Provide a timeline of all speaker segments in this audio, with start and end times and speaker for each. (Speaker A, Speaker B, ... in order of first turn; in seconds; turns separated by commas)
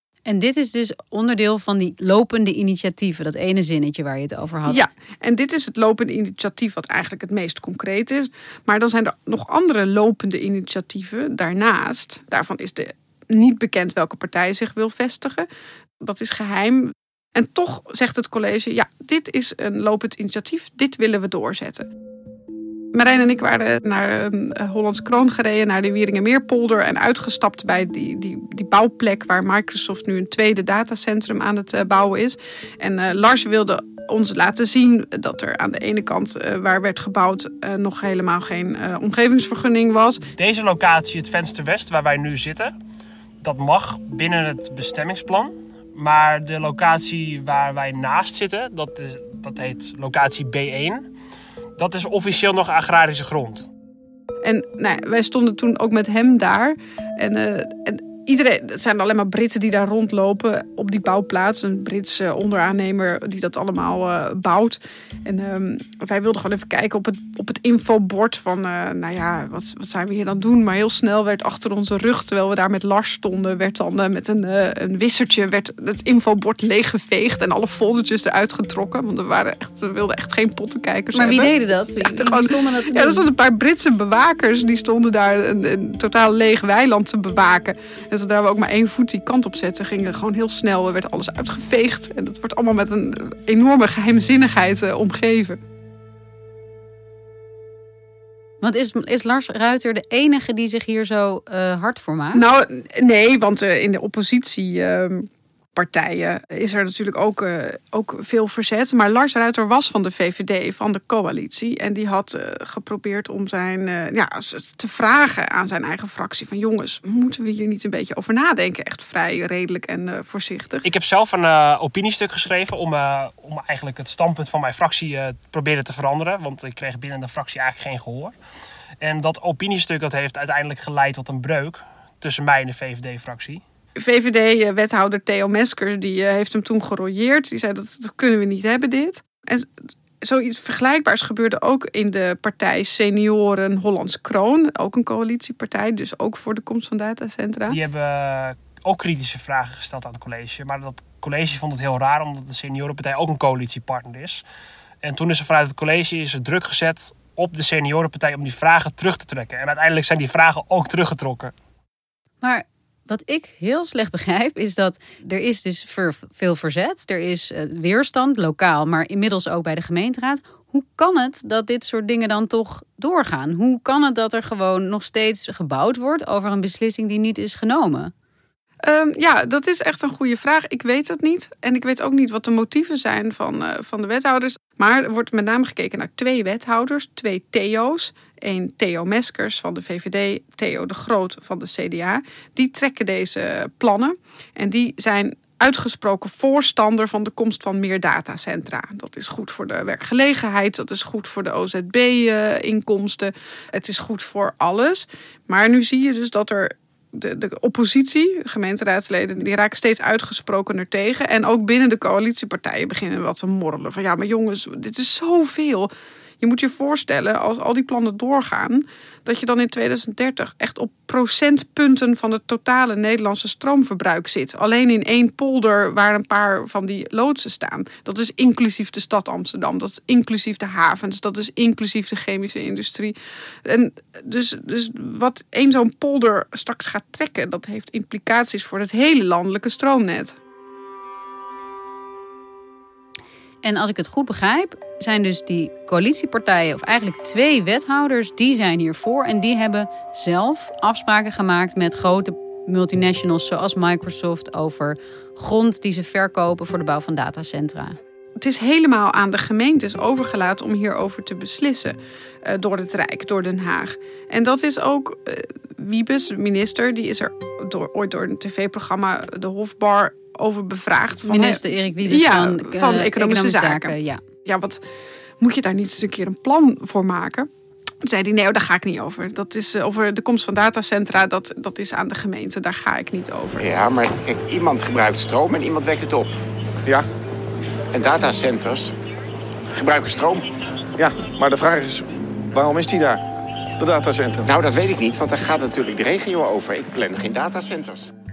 Speaker A: 0.2-4.8, Speaker B: 4.7-15.5, Speaker B: 16.0-21.9, Speaker B: 22.9-40.2, Speaker C: 40.4-42.7, Speaker C: 43.4-51.1, Speaker C: 51.8-53.7, Speaker B: 54.4-95.6, Speaker A: 81.1-83.2, Speaker A: 98.6-102.5, Speaker B: 102.3-120.8, Speaker C: 120.8-128.3, Speaker C: 129.0-133.6, Speaker B: 134.0-139.7, Speaker B: 140.2-147.8, Speaker C: 147.7-154.4, Speaker C: 155.0-161.5, Speaker A: 162.4-178.1, Speaker B: 178.8-215.9, Speaker B: 216.4-240.3, Speaker A: 243.6-258.0, Speaker B: 258.4-274.8, Speaker A: 271.2-274.2, Speaker B: 275.4-277.5, Speaker B: 278.0-283.6, Speaker D: 283.7-286.3, Speaker E: 285.5-285.9, Speaker D: 287.9-288.9, Speaker E: 289.8-290.3, Speaker D: 289.9-290.4, Speaker E: 291.0-293.2, Speaker E: 293.8-294.8, Speaker D: 294.6-298.1